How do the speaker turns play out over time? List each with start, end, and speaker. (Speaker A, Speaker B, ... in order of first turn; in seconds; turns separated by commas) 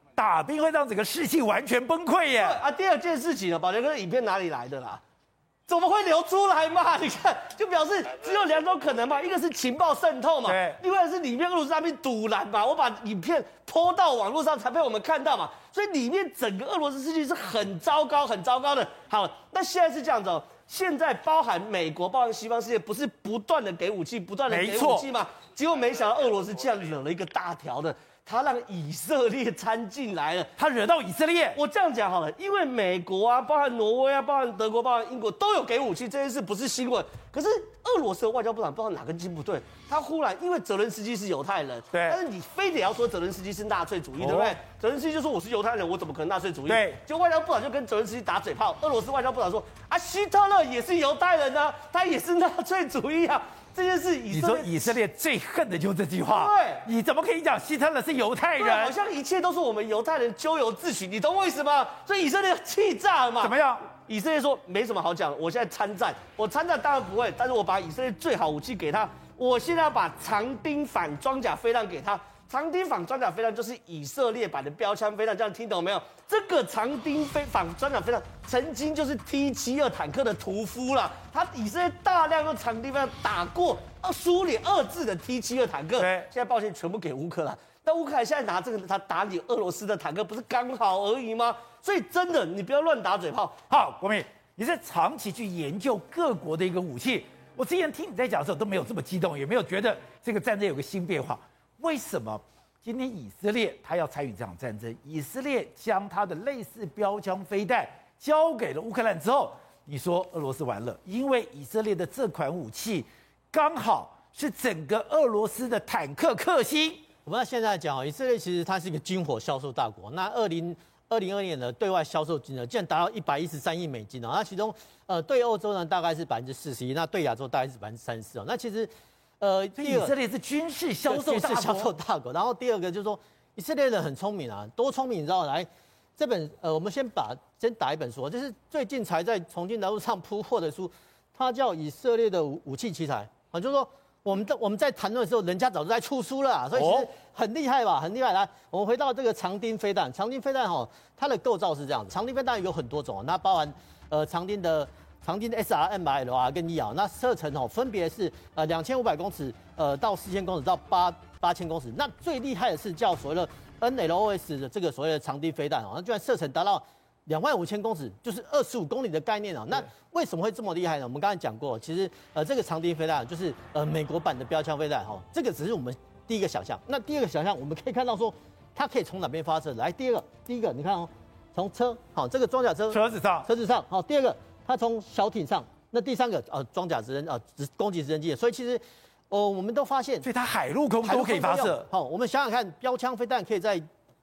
Speaker A: 0.2-2.6, Speaker B: 2.4-5.0, Speaker B: 5.7-30.5, Speaker A: 10.4-10.8, Speaker A: 24.5-25.1, Speaker A: 30.6-31.6, Speaker B: 31.6-55.0, Speaker A: 41.9-42.2, Speaker A: 44.2-44.6, Speaker A: 46.7-47.0, Speaker A: 54.3-59.0, Speaker B: 56.2-56.9, Speaker B: 58.6-93.6, Speaker A: 63.4-63.8, Speaker A: 86.0-86.3, Speaker A: 93.7-117.1, Speaker C: 117.2-130.1, Speaker A: 129.8-131.9, Speaker C: 131.1-190.3, Speaker A: 146.8-147.1, Speaker A: 182.9-183.5, Speaker A: 190.2-191.9, Speaker C: 191.0-193.9